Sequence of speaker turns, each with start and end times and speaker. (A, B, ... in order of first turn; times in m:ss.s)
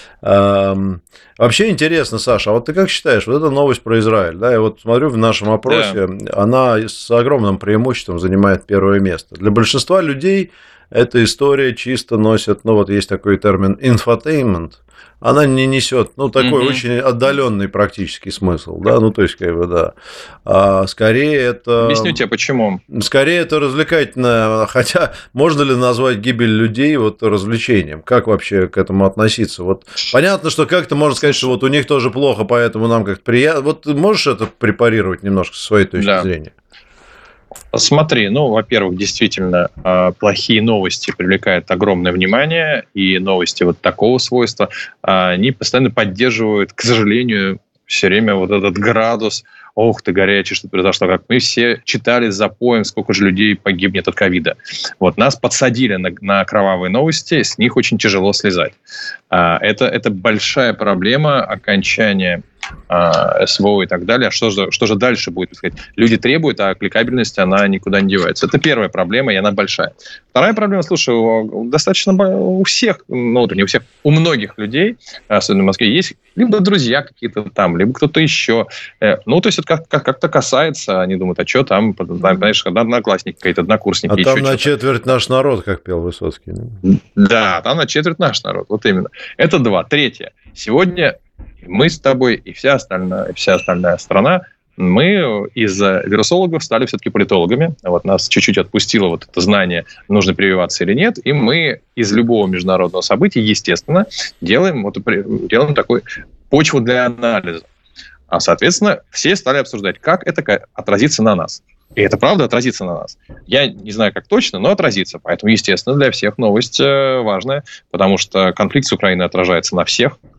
0:00.2-0:19.9 A
0:05.7-0:06.0 B
0:16.4-0:16.8 B
0:20.4-0:22.2 A
0:21.8-0:22.8 B
0:22.9-0:36.5 A
0:36.0-0:36.3 B
0:37.7-0:58.8 B
0:59.3-1:24.7 B
1:24.1-1:26.8 A
1:26.8-1:47.7 B
1:48.3-2:00.2 B